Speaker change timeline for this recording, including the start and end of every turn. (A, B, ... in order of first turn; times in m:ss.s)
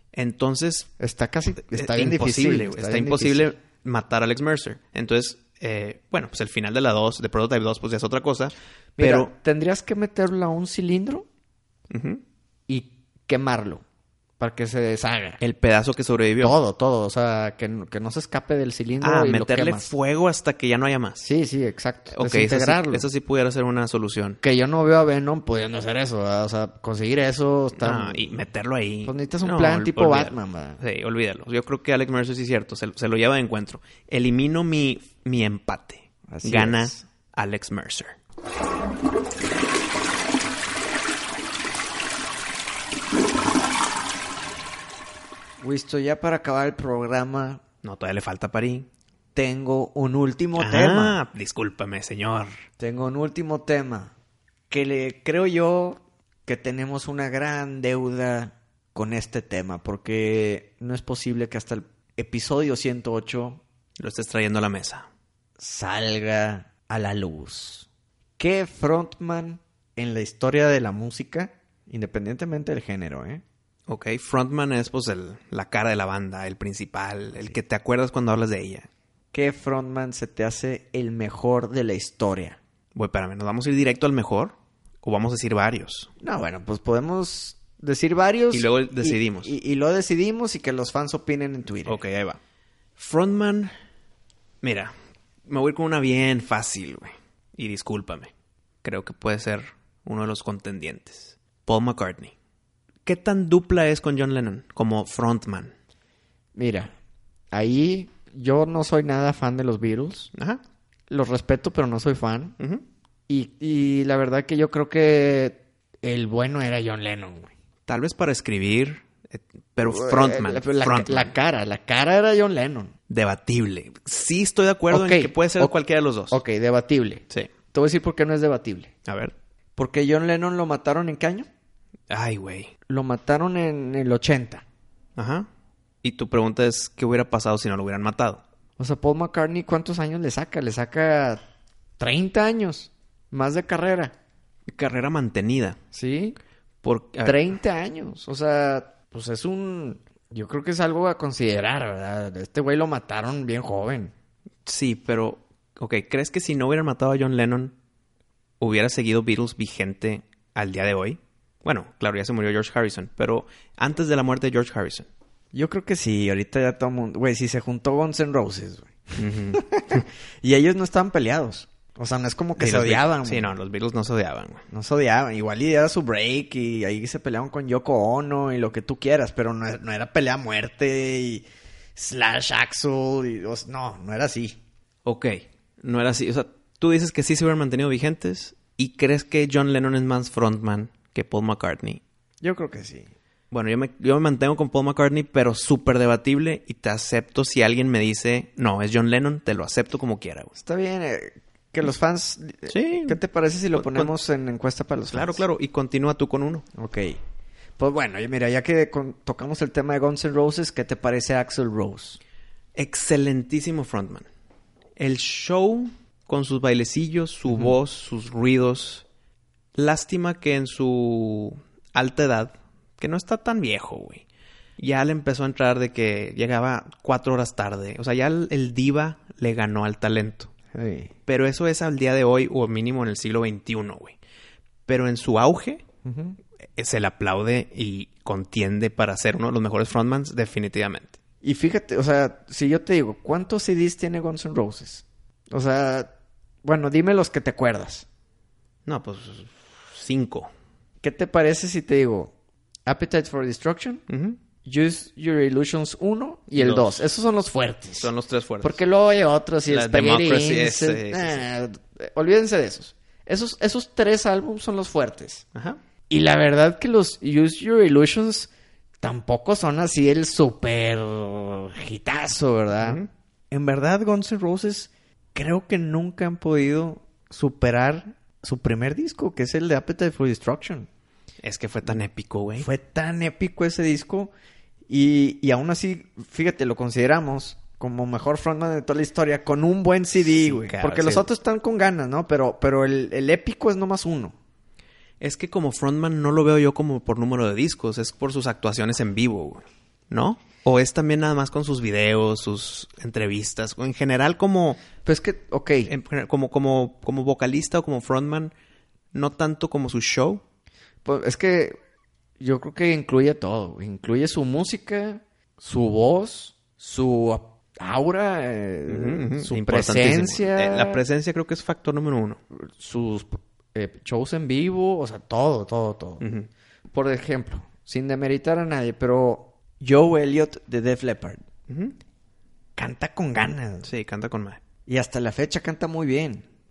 0:00.1-0:00.9 A
0:01.0-0:03.5 B
0:01.7-0:09.3 A
0:09.0-0:11.3 B
0:11.9-0:12.2 A
0:12.7-0:13.8 B
0:14.4-0:15.4 B
0:15.4-0:16.6 A
0:16.4-0:19.9 B
0:19.0-0:21.2 A
0:21.2-0:23.1 B
0:22.1-0:24.4 A
0:24.4-0:28.4 B
0:27.8-0:38.2 A
0:29.0-0:30.8 B
0:36.3-0:37.0 B
0:45.6-0:47.6 B
0:47.8-0:48.9 A
0:49.3-0:51.2 B
0:50.6-0:52.5 A
0:52.8-0:54.1 B
0:54.7-1:03.6 B
1:04.0-1:05.1 A
1:05.6-1:07.9 B
1:08.4-1:13.4 B
1:13.9-1:18.9 A
1:19.3-1:22.6 B
1:22.9-1:26.1 A
1:26.2-1:32.0 B
1:28.5-1:29.5 A
1:31.8-1:32.4 A
1:33.0-1:33.7 A
1:34.6-1:34.9 A
1:35.5-1:38.3 A
1:38.8-1:42.3 A
1:43.0-1:45.7 A
1:46.5-1:46.9 B
1:47.5-1:50.3 B
1:50.3-1:50.6 A
1:51.1-1:52.6 B
1:53.3-1:57.5 B
1:57.9-2:01.3 A
1:59.8-2:02.9 B
2:03.1-2:06.4 A
2:04.9-2:05.7 B
2:06.3-2:08.9 B
2:09.0-2:09.3 A
2:09.8-2:11.5 B
2:12.1-2:12.7 A
2:12.9-2:14.6 B
2:15.2-2:15.5 A
2:16.0-2:18.4 A
2:18.8-2:21.4 B
2:22.0-2:24.1 B
2:24.7-2:25.8 A
2:25.9-2:26.4 B
2:26.8-2:27.4 A
2:27.2-2:34.1 B
2:34.6-2:37.7 A
2:38.6-2:45.1 A
2:45.5-2:53.5 B
2:49.2-2:50.0 A
2:52.6-2:54.6 A
2:54.7-3:04.6 B
3:05.0-3:12.0 A
3:12.4-3:13.1 B
3:13.5-3:20.5 A
3:20.6-3:25.4 B
3:22.7-3:23.2 A
3:23.7-3:24.1 A
3:25.1-3:26.6 A
3:26.7-3:27.2 B
3:27.8-3:32.2 B
3:32.8-3:34.2 A
3:35.0-3:39.0 A
3:39.7-3:44.2 A
3:44.8-3:50.5 A
3:50.7-3:51.1 B
3:51.3-3:54.2 A
3:54.9-3:55.8 A
3:56.0-3:56.4 B
3:56.8-4:01.2 A
4:01.4-4:06.1 B
4:06.6-4:08.0 B
4:08.8-4:10.5 A
4:11.0-4:12.3 B
4:12.8-4:14.0 B
4:14.1-4:14.4 A
4:14.6-4:25.4 B
4:16.5-4:17.0 A
4:18.0-4:18.8 A
4:19.7-4:21.4 A
4:26.1-4:28.5 B
4:29.0-4:40.9 B
4:32.8-4:33.1 A
4:41.4-4:42.7 A
4:42.6-4:44.3 B
4:44.9-4:54.4 B
4:50.2-4:51.3 A
4:55.2-5:04.8 A
5:05.0-5:05.9 B
5:05.9-5:08.5 A
5:09.1-5:10.4 A
5:11.0-5:11.8 B
5:12.4-5:21.0 B
5:18.9-5:22.4 A
5:22.5-5:26.2 B
5:26.2-5:26.5 A
5:26.9-5:31.4 B
5:31.7-5:31.9 A
5:32.8-5:33.9 B
5:33.8-5:34.6 A
5:34.9-5:36.4 B